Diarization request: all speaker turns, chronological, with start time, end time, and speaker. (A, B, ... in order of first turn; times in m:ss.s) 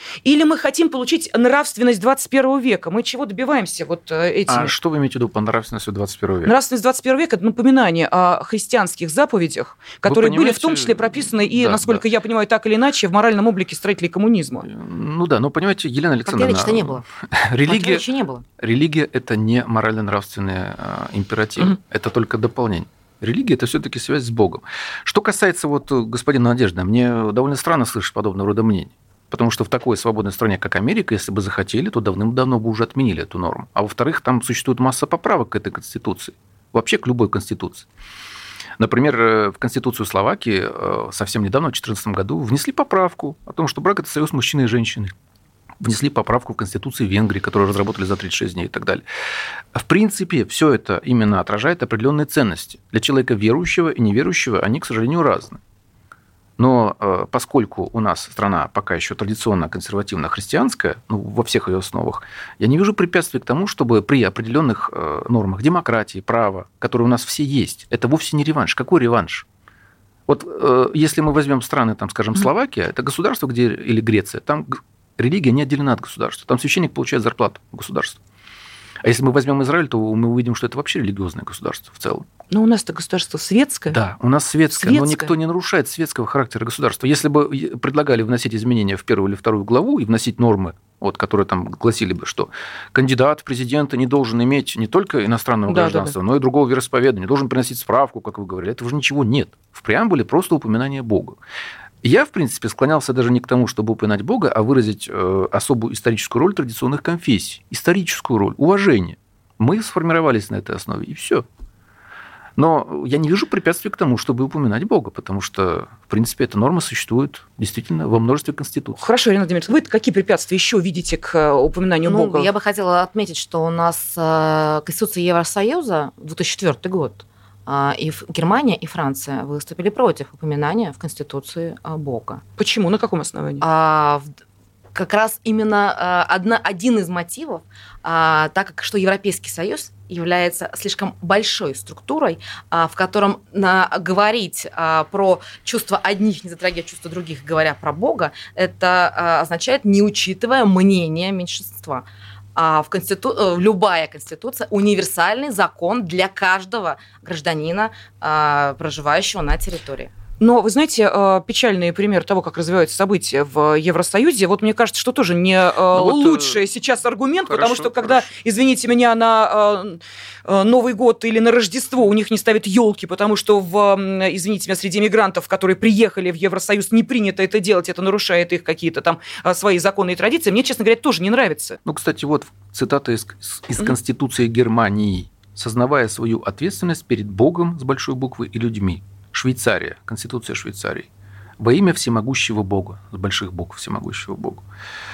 0:00.2-0:04.7 A
0:04.5-0:06.5 B
0:06.4-0:14.6 A
0:10.0-0:12.0 B
0:14.6-0:18.0 B
0:16.2-0:17.0 C
0:17.6-0:18.4 C
0:18.6-0:37.9 B
0:38.8-0:45.1 B
0:45.8-0:49.0 B
0:49.7-0:55.6 B
0:56.6-1:09.4 B
1:10.3-1:18.2 B
1:19.0-1:22.3 B
1:22.5-1:24.0 A
1:23.9-1:41.4 B
1:24.7-1:25.3 A
1:35.7-1:36.1 A
1:42.0-1:51.4 B
1:52.6-1:59.0 B
1:59.0-2:02.5 A
2:02.0-2:12.4 C
2:12.6-2:13.6 A
2:13.6-2:14.3 C
2:14.9-2:40.1 C
2:40.4-3:01.8 A
2:45.9-2:46.6 B
2:47.4-2:48.3 B
3:01.8-3:11.1 B
3:11.6-3:14.6 B